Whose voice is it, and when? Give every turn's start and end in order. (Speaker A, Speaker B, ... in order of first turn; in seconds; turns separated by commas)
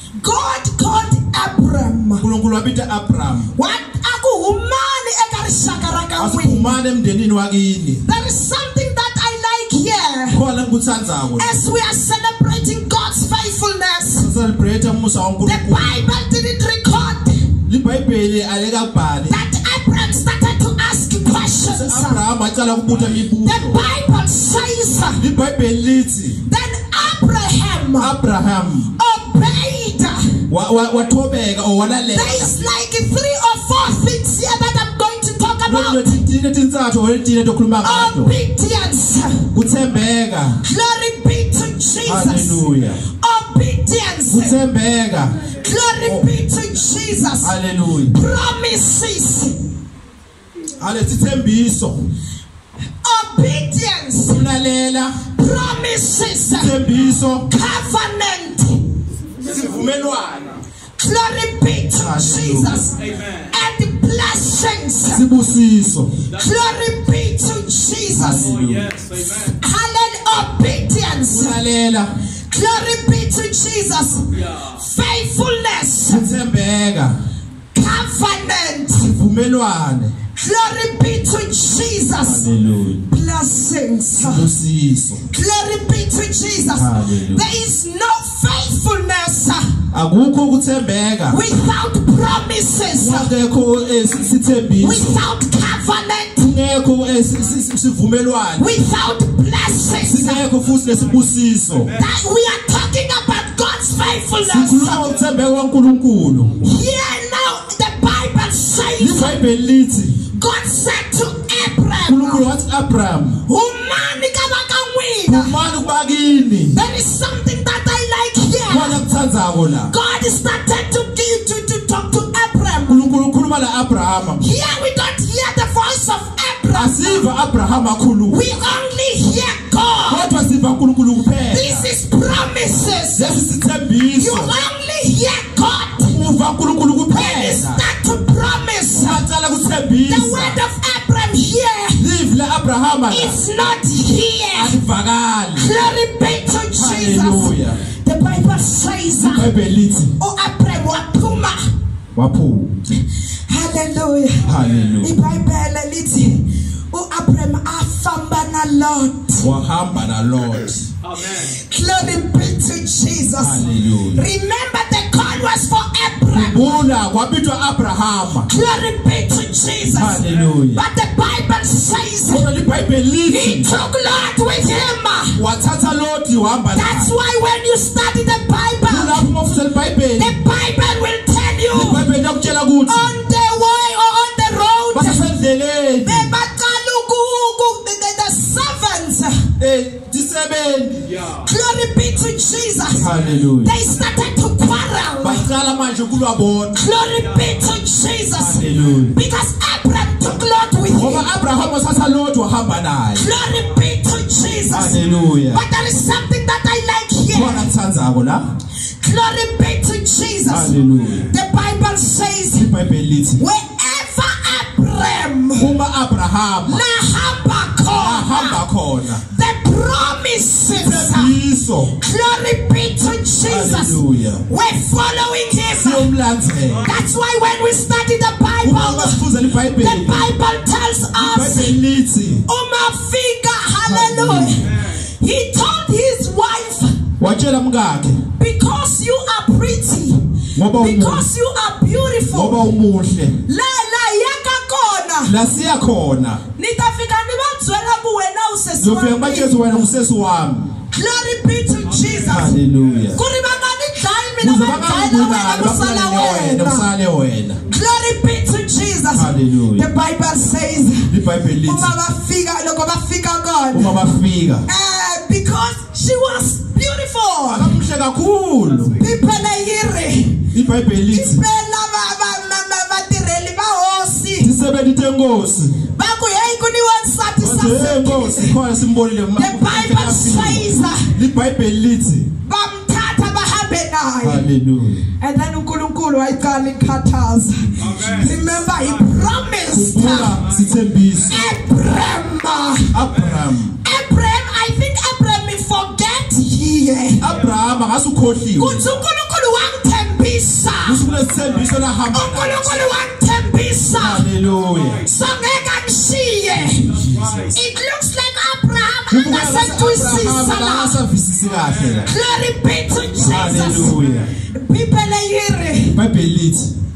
Speaker A: 0.2-2.2, Speaker B: 2.2-3.5, Speaker A: 3.5-6.7, Speaker B: 6.2-8.0, Speaker A: 8.0-10.4, Speaker B: 10.3-11.6, Speaker A: 11.4-14.3, Speaker B: 14.2-16.0, Speaker A: 15.4-17.6, Speaker B: 17.6-19.4, Speaker A: 19.3-22.2, Speaker B: 21.6-23.8, Speaker A: 23.4-25.2, Speaker B: 25.1-26.4, Speaker A: 26.4-28.1, Speaker B: 28.0-28.9, Speaker A: 28.9-30.4, Speaker B: 30.5-32.5, Speaker A: 32.1-36.2, Speaker B: 35.6-38.3, Speaker A: 37.8-39.5, Speaker B: 39.5-40.6, Speaker A: 40.6-42.6, Speaker B: 42.0-43.0, Speaker A: 43.2-44.6, Speaker B: 44.3-46.3, Speaker A: 45.5-49.6, Speaker B: 47.4-48.1, Speaker B: 50.8-52.0, Speaker A: 53.0-54.4, Speaker B: 54.2-55.3, Speaker A: 55.3-56.8, Speaker B: 56.5-57.5, Speaker C: 56.8-57.2, Speaker A: 57.5-58.9, Speaker C: 59.3-60.6, Speaker B: 59.4-60.6, Speaker A: 61.0-63.0, Speaker B: 61.9-63.1, Speaker C: 62.9-63.5, Speaker A: 63.5-65.2, Speaker B: 65.0-66.1, Speaker C: 66.3-67.0, Speaker A: 66.3-68.5, Speaker B: 68.2-68.9, Speaker C: 68.3-69.6, Speaker A: 69.5-71.6, Speaker B: 71.3-72.1, Speaker A: 72.5-76.3, Speaker C: 74.3-74.8, Speaker B: 76.1-77.2, Speaker A: 77.7-79.1, Speaker B: 79.0-80.1, Speaker A: 80.4-82.5, Speaker B: 82.2-83.0, Speaker A: 83.0-84.5, Speaker B: 84.2-85.2, Speaker A: 85.3-89.8, Speaker B: 86.7-87.5, Speaker B: 89.9-91.4, Speaker A: 91.3-93.3, Speaker B: 93.0-95.2, Speaker A: 94.8-96.5, Speaker B: 96.4-98.7, Speaker A: 98.6-100.5, Speaker B: 100.0-101.9, Speaker C: 100.5-102.1, Speaker A: 102.0-105.1, Speaker B: 104.5-106.5, Speaker C: 104.8-105.3, Speaker A: 106.6-109.4, Speaker B: 109.0-110.2, Speaker A: 110.3-112.5, Speaker B: 112.0-113.4, Speaker A: 113.5-115.6, Speaker B: 115.2-116.8, Speaker A: 116.7-119.0, Speaker B: 118.7-119.9, Speaker A: 119.9-123.1, Speaker B: 122.8-124.4, Speaker A: 124.4-127.3, Speaker B: 126.7-128.4, Speaker A: 128.3-130.5, Speaker B: 130.1-131.9, Speaker A: 131.4-133.4, Speaker B: 133.1-134.5, Speaker A: 134.2-136.2, Speaker B: 136.1-137.8, Speaker A: 137.1-139.2, Speaker B: 139.0-140.6, Speaker A: 140.1-142.0, Speaker B: 142.0-143.4, Speaker A: 143.1-144.8, Speaker B: 144.5-145.7, Speaker A: 145.6-149.5, Speaker B: 146.8-147.8, Speaker B: 149.3-150.1, Speaker A: 150.2-151.7, Speaker B: 152.1-152.7, Speaker A: 153.5-159.5, Speaker C: 154.4-155.0, Speaker B: 154.4-155.2, Speaker B: 159.4-160.9, Speaker C: 161.0-161.6, Speaker A: 161.4-166.9, Speaker B: 163.4-164.2, Speaker B: 166.3-168.5, Speaker A: 168.5-172.5, Speaker B: 169.9-170.8, Speaker C: 170.2-170.5, Speaker B: 172.3-173.7, Speaker A: 173.2-175.4, Speaker B: 175.3-177.1, Speaker A: 176.7-179.3, Speaker B: 178.9-180.4, Speaker A: 180.1-182.1, Speaker B: 181.7-183.2, Speaker A: 182.9-185.3, Speaker B: 184.9-186.3, Speaker A: 186.0-189.5, Speaker B: 189.6-191.1, Speaker C: 191.0-191.5, Speaker A: 191.4-195.5, Speaker B: 193.0-193.7, Speaker B: 195.2-196.8, Speaker A: 196.7-201.3, Speaker C: 197.0-197.7, Speaker B: 198.3-199.2, Speaker C: 198.7-199.0, Speaker B: 200.9-203.3, Speaker A: 203.1-207.7, Speaker B: 204.7-205.6, Speaker B: 207.3-208.4, Speaker A: 209.0-210.8, Speaker B: 210.5-211.3, Speaker C: 210.7-211.3, Speaker A: 211.3-212.7, Speaker B: 212.5-213.4, Speaker A: 213.4-215.7, Speaker B: 215.5-216.8, Speaker A: 216.7-218.6, Speaker B: 217.9-219.2, Speaker A: 219.3-221.4, Speaker B: 220.8-221.9, Speaker A: 222.0-226.1, Speaker B: 223.4-224.5, Speaker B: 225.7-226.9, Speaker C: 226.4-227.0, Speaker A: 226.8-231.8, Speaker B: 228.6-230.2, Speaker B: 231.1-232.4, Speaker A: 232.4-237.0, Speaker B: 233.8-234.7, Speaker C: 234.5-235.1, Speaker B: 237.2-238.2, Speaker A: 238.4-242.6, Speaker B: 240.6-241.2, Speaker B: 242.3-243.4, Speaker A: 243.4-245.3, Speaker B: 245.2-246.4, Speaker A: 246.6-249.7, Speaker B: 248.8-250.8, Speaker A: 250.9-252.6, Speaker C: 251.8-253.5, Speaker B: 252.3-253.2, Speaker A: 253.1-256.9, Speaker B: 254.4-257.6, Speaker A: 257.7-261.1, Speaker B: 259.1-259.9, Speaker B: 261.1-261.9, Speaker A: 261.6-264.0, Speaker B: 263.7-264.6, Speaker A: 264.6-267.8, Speaker B: 267.4-269.0, Speaker C: 268.6-269.1, Speaker A: 269.0-270.5, Speaker B: 270.5-271.4, Speaker A: 271.1-274.5, Speaker B: 274.4-275.9, Speaker A: 275.9-278.6, Speaker B: 277.4-282.3, Speaker A: 279.4-281.1, Speaker A: 282.4-284.4, Speaker B: 284.2-285.1, Speaker A: 285.2-290.4, Speaker B: 287.6-288.4, Speaker C: 287.8-289.4, Speaker B: 289.7-291.4, Speaker C: 290.2-291.5, Speaker A: 291.3-293.0, Speaker B: 292.9-293.8, Speaker C: 293.1-293.5, Speaker A: 293.8-297.3, Speaker B: 297.2-298.9, Speaker C: 297.2-298.0, Speaker A: 298.6-301.1, Speaker B: 300.8-302.8, Speaker C: 300.9-301.9, Speaker A: 302.1-304.3, Speaker B: 303.9-305.0, Speaker C: 304.5-305.2, Speaker A: 305.0-306.9, Speaker C: 306.7-307.6, Speaker B: 306.9-307.6, Speaker A: 307.5-311.0, Speaker B: 309.1-312.1, Speaker C: 311.4-312.1, Speaker A: 312.1-314.0, Speaker C: 313.2-314.3, Speaker B: 313.2-314.3, Speaker A: 314.5-316.0, Speaker B: 315.9-316.7